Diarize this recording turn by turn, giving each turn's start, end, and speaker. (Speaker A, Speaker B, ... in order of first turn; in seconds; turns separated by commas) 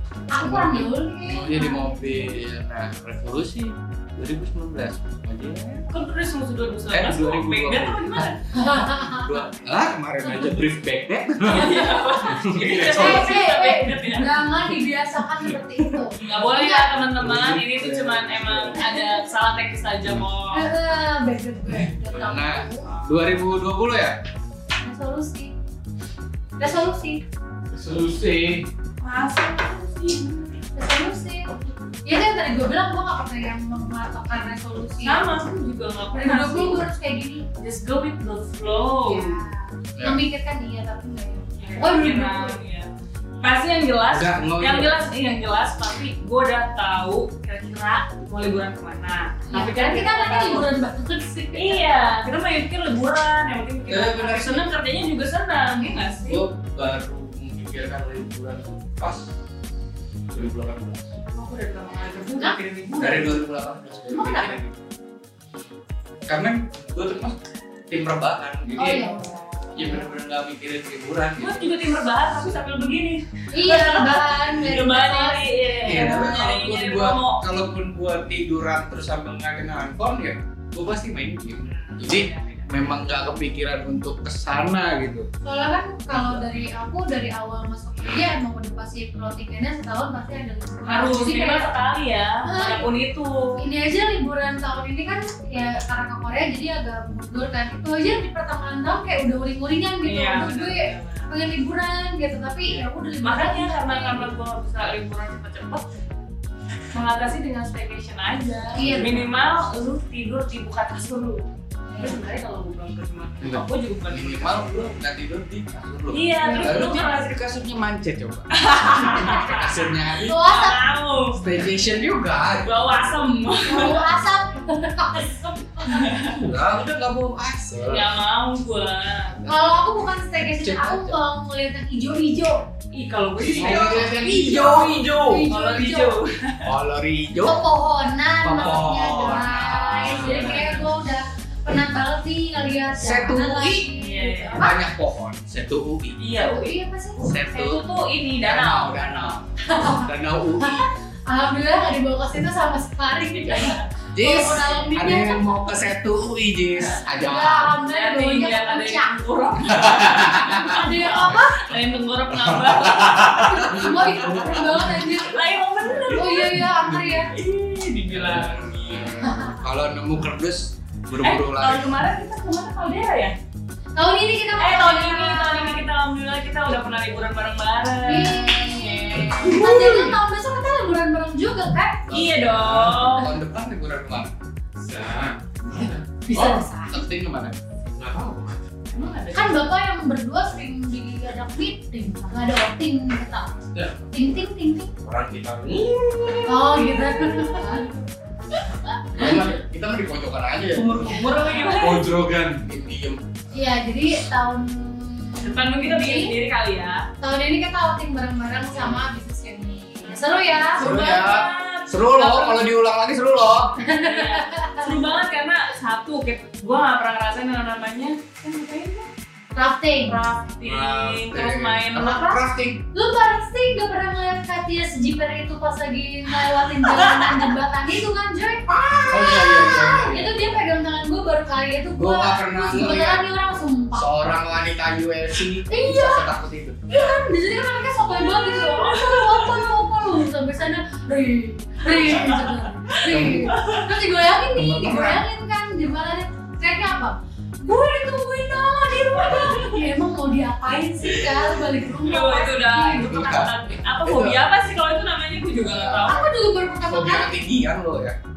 Speaker A: 0.3-2.4, Speaker B: 0.4-5.9, Speaker C: 5.9-8.4, Speaker B: 6.9-13.2, Speaker A: 8.5-9.3, Speaker C: 11.5-14.4, Speaker D: 12.6-12.9, Speaker A: 12.9-16.9, Speaker C: 16.2-20.6, Speaker B: 17.2-18.8, Speaker A: 18.7-19.2, Speaker A: 20.5-22.9, Speaker B: 21.8-24.2, Speaker C: 22.9-23.4, Speaker A: 24.8-25.5, Speaker A: 26.6-27.2, Speaker D: 27.7-28.7, Speaker C: 29.0-30.6, Speaker A: 30.7-31.5, Speaker A: 32.0-35.3, Speaker C: 35.0-36.9, Speaker A: 36.1-37.4, Speaker C: 37.6-39.4, Speaker A: 39.0-42.6, Speaker C: 41.6-42.9, Speaker C: 43.4-50.7, Speaker B: 44.1-44.9, Speaker A: 49.5-52.1, Speaker C: 51.5-56.4, Speaker B: 53.9-54.7, Speaker B: 56.3-59.3, Speaker B: 60.3-61.1, Speaker C: 61.3-63.4, Speaker B: 63.0-64.8, Speaker A: 64.1-64.5, Speaker B: 66.3-67.4, Speaker B: 67.9-69.1, Speaker A: 68.7-69.4, Speaker B: 69.7-71.7, Speaker C: 71.4-77.4, Speaker A: 73.5-76.2, Speaker B: 75.9-85.3, Speaker C: 81.7-83.0, Speaker A: 85.4-91.7, Speaker B: 86.1-86.4, Speaker C: 90.9-93.6, Speaker A: 92.5-92.9, Speaker A: 93.6-104.3, Speaker C: 100.0-101.3, Speaker C: 102.7-105.9, Speaker C: 106.9-114.9, Speaker A: 108.7-109.3, Speaker B: 108.8-109.1, Speaker A: 111.9-112.2, Speaker B: 113.4-120.3, Speaker C: 116.1-117.3, Speaker A: 116.4-117.0, Speaker C: 118.5-121.4, Speaker A: 120.2-120.8, Speaker B: 121.3-122.7, Speaker C: 122.6-124.0, Speaker A: 123.6-126.1, Speaker C: 125.9-126.4, Speaker B: 126.2-128.1, Speaker C: 127.9-129.3, Speaker B: 129.3-129.7, Speaker A: 129.4-132.6, Speaker B: 130.5-131.2, Speaker C: 132.9-134.9, Speaker B: 133.4-135.5, Speaker A: 133.5-136.1, Speaker C: 135.5-136.7, Speaker B: 136.6-137.6, Speaker A: 137.4-144.8, Speaker B: 138.4-140.8, Speaker C: 140.1-140.8, Speaker B: 142.9-143.9, Speaker C: 143.9-144.6, Speaker B: 144.6-146.2, Speaker C: 146.2-146.8, Speaker A: 146.3-147.2, Speaker B: 147.2-147.8, Speaker C: 147.4-149.4, Speaker B: 148.4-150.9, Speaker A: 149.7-155.5, Speaker C: 153.4-153.8, Speaker B: 154.1-157.7, Speaker C: 156.8-157.0, Speaker A: 157.1-159.2, Speaker C: 157.9-163.6, Speaker B: 159.7-160.9, Speaker A: 160.6-161.6, Speaker B: 162.8-164.9, Speaker A: 163.1-165.3, Speaker C: 165.1-169.2, Speaker A: 166.1-167.3, Speaker B: 168.1-171.9, Speaker A: 169.2-169.6, Speaker C: 171.2-173.3, Speaker A: 173.9-175.9, Speaker C: 174.6-180.2, Speaker A: 178.0-182.1, Speaker B: 182.1-184.3, Speaker C: 182.1-183.3, Speaker D: 184.8-186.6, Speaker A: 186.2-187.0, Speaker B: 186.4-187.6, Speaker D: 187.9-188.7, Speaker C: 188.9-189.6, Speaker A: 189.3-193.6, Speaker A: 194.1-194.9, Speaker D: 195.0-196.9, Speaker A: 196.4-197.8, Speaker C: 197.0-198.0, Speaker B: 199.1-203.2, Speaker C: 200.7-202.1, Speaker A: 201.3-201.7, Speaker D: 201.8-202.6, Speaker A: 203.5-206.3, Speaker C: 205.4-207.0, Speaker A: 207.2-210.9, Speaker C: 210.1-212.6, Speaker B: 210.8-213.8, Speaker A: 213.8-215.0, Speaker C: 213.9-219.1, Speaker A: 219.5-220.2, Speaker C: 220.1-222.3, Speaker B: 220.6-222.8, Speaker A: 222.0-222.4, Speaker A: 222.9-234.1, Speaker C: 226.8-227.5, Speaker B: 229.0-230.5, Speaker B: 232.0-233.2, Speaker B: 233.9-236.8, Speaker A: 235.7-236.3, Speaker A: 236.9-253.1, Speaker C: 238.2-239.7, Speaker C: 241.9-242.5, Speaker B: 243.0-243.6, Speaker C: 243.2-243.8, Speaker B: 244.5-245.2, Speaker C: 249.3-249.8, Speaker C: 252.0-256.3, Speaker B: 253.1-254.4, Speaker B: 255.6-256.2, Speaker A: 256.1-257.3, Speaker B: 256.9-258.2